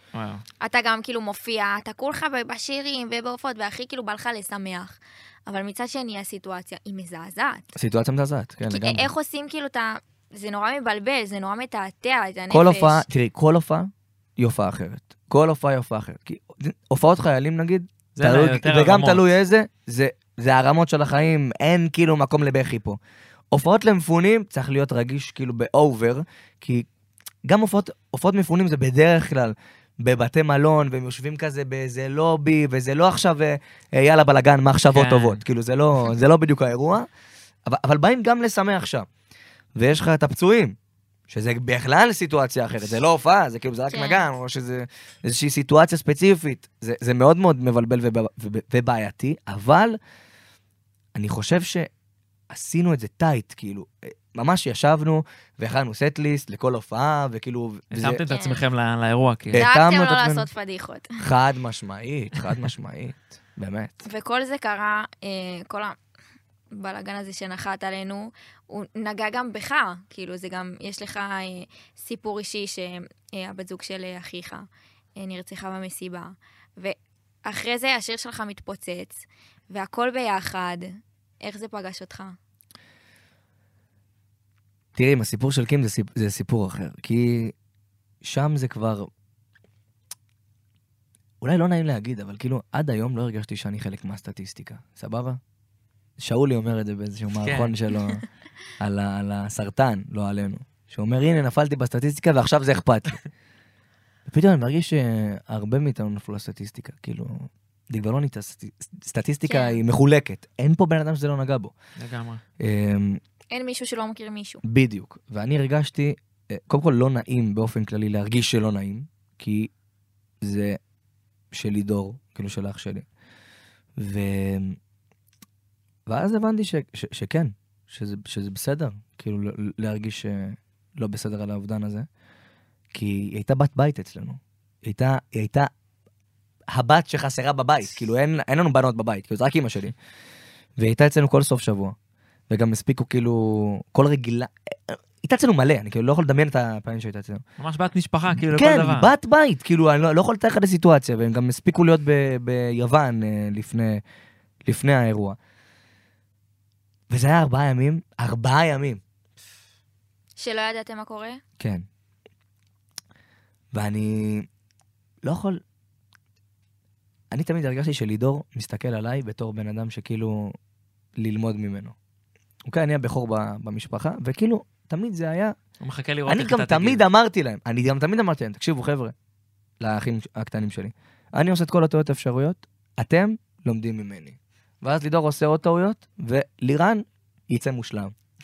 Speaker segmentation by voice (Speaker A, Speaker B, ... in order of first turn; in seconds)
Speaker A: 0.1-0.4, 18.2-19.2, 34.9-35.4, 57.9-59.7, 97.4-97.8, 112.0-112.4, 147.6-149.1, 175.8-177.0
Speaker B: 0.6-7.7, 8.7-13.1, 43.9-44.3, 58.3-58.6, 59.5-61.2, 64.0-66.0, 66.7-82.4, 109.5-109.8, 113.5-114.6, 160.4-161.4
Speaker C: 7.8-9.1, 12.5-23.0, 23.5-26.9, 27.5-37.1, 37.7-39.1, 39.8-40.8, 41.3-50.0, 51.1-51.9, 52.5-58.2, 59.5-60.5, 61.2-64.0, 85.0-87.5, 88.2-89.1, 91.4-95.4, 96.2-98.2, 98.8-103.2, 104.3-111.7, 112.6-113.2, 114.6-119.7, 120.4-120.8, 121.5-123.1, 124.0-124.8, 126.1-132.1, 132.9-135.7, 136.7-139.9, 140.8-142.0, 142.5-147.4, 148.4-154.0, 154.7-155.4, 157.1-159.0, 161.6-161.8, 163.7-164.5, 165.2-165.6, 167.3-170.6, 171.2-172.0, 172.7-175.6, 176.3-179.1, 179.8-188.1